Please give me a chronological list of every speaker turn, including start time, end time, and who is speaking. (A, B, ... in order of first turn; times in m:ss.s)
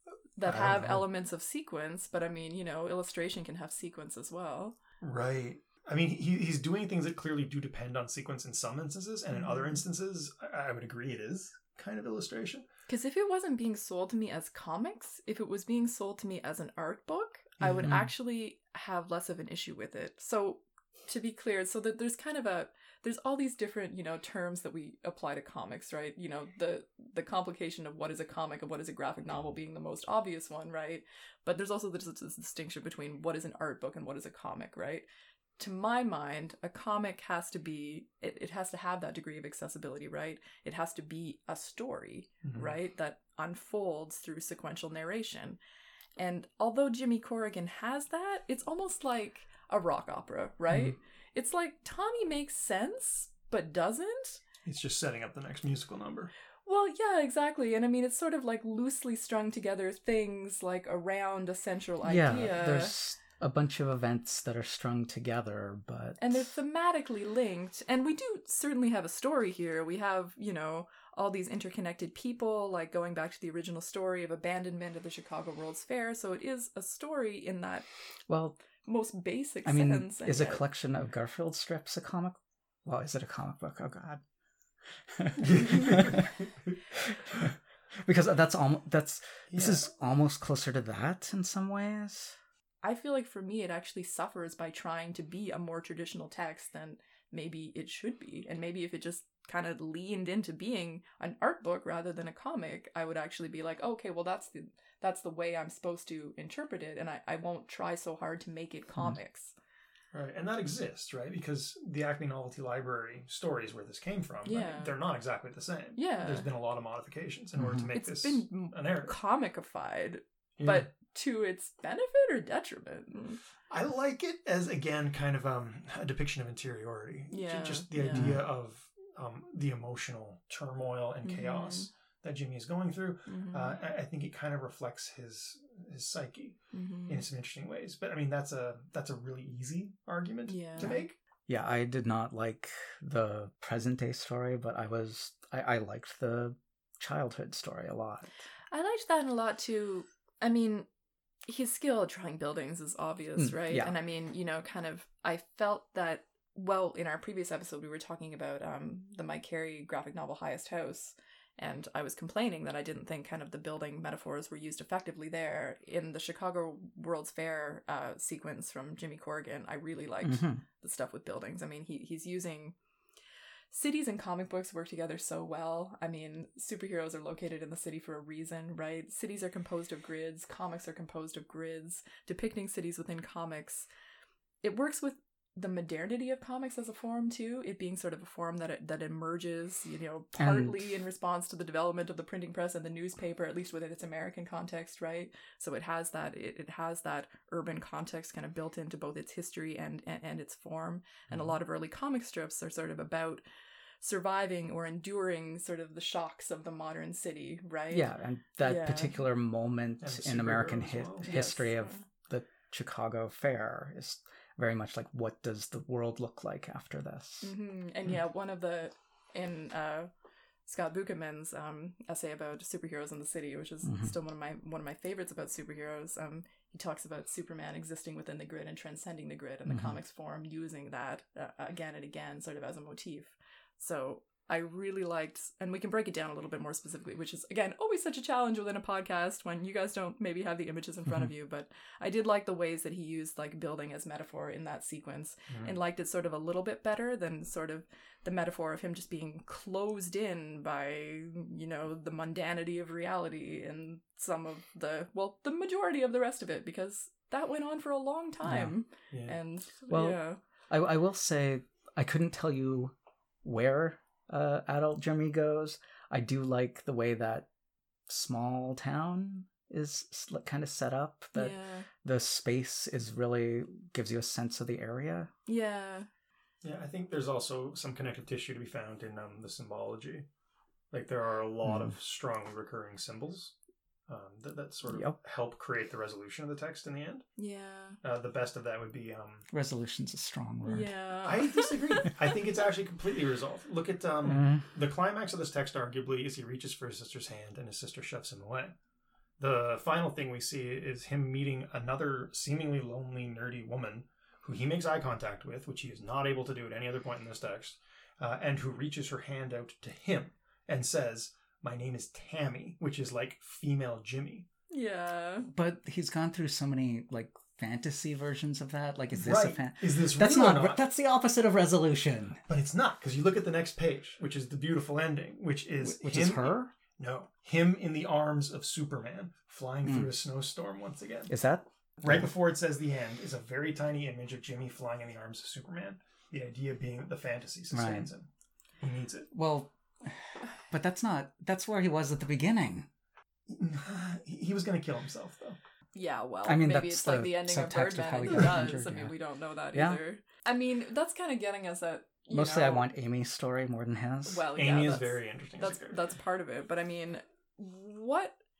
0:00.4-0:04.8 A
0:00.4-0:01.0 B
0:05.0-0:12.7 B
0:09.3-0:09.8 A
0:12.9-0:35.1 A
0:17.8-0:18.1 C
0:35.6-0:45.6 A
0:42.4-0:42.7 B
0:46.2-0:54.4 A
0:54.6-0:56.3 B
0:56.6-1:02.9 A
1:02.0-1:06.5 C
1:06.2-1:17.9 A
1:18.3-1:18.6 C
1:18.8-1:20.6 A
1:19.6-1:24.2 C
1:24.9-1:26.3 C
1:25.4-1:26.7 B
1:26.9-1:32.4 C
1:29.5-1:29.9 B
1:32.8-1:49.5 A
1:50.1-1:59.1 B
1:54.4-1:54.9 A
1:56.0-1:56.5 A
1:57.6-1:57.9 C
1:57.9-2:03.4 A
2:00.6-2:00.9 B
2:03.7-2:21.2 B
2:07.3-2:08.4 A
2:08.1-2:08.4 C
2:11.2-2:11.9 A
2:13.3-2:13.8 A
2:16.7-2:17.2 A
2:20.5-2:21.0 A
2:21.5-2:28.3 C
2:28.7-2:30.9 A
2:31.4-2:52.8 A
2:33.4-2:33.9 C
2:50.2-2:50.6 C
2:53.7-3:03.9 A
3:04.6-3:23.4 A
3:10.4-3:11.0 C
3:21.3-3:21.5 B
3:24.0-3:29.2 A
3:27.9-3:37.5 C
3:30.0-3:31.3 B
3:31.2-3:32.0 A
3:37.4-3:40.1 A
3:40.6-4:20.4 A
3:43.8-3:44.1 C
3:49.7-3:50.0 C
4:05.5-4:05.8 B
4:18.4-4:18.7 C
4:19.1-4:19.4 B
4:19.9-4:22.9 C
4:23.4-4:27.5 C
4:28.1-4:35.3 C
4:31.4-4:31.9 A
4:35.5-4:36.1 A
4:36.6-4:40.3 B
4:40.9-4:43.5 B
4:41.6-4:42.0 C
4:44.1-4:47.2 B
4:44.9-4:45.2 C
4:47.4-4:48.0 A
4:48.0-4:49.5 B
4:49.5-4:50.9 C
4:50.6-4:52.1 A
4:51.2-4:58.8 B
4:54.2-4:54.7 C
4:59.4-5:14.4 B
5:14.7-5:15.5 A
5:15.4-5:22.4 C
5:19.1-5:20.8 B
5:22.5-5:31.3 B
5:25.8-5:26.7 C
5:29.8-5:30.1 C
5:31.3-5:32.3 C
5:32.0-5:38.3 B
5:37.7-5:38.1 C
5:38.8-5:39.3 B
5:39.3-5:42.9 C
5:43.5-5:45.6 B
5:45.9-5:52.9 A
5:46.4-5:49.2 C
5:49.7-5:50.0 C
5:52.3-5:54.4 C
5:54.3-5:58.4 A
5:54.6-5:56.0 B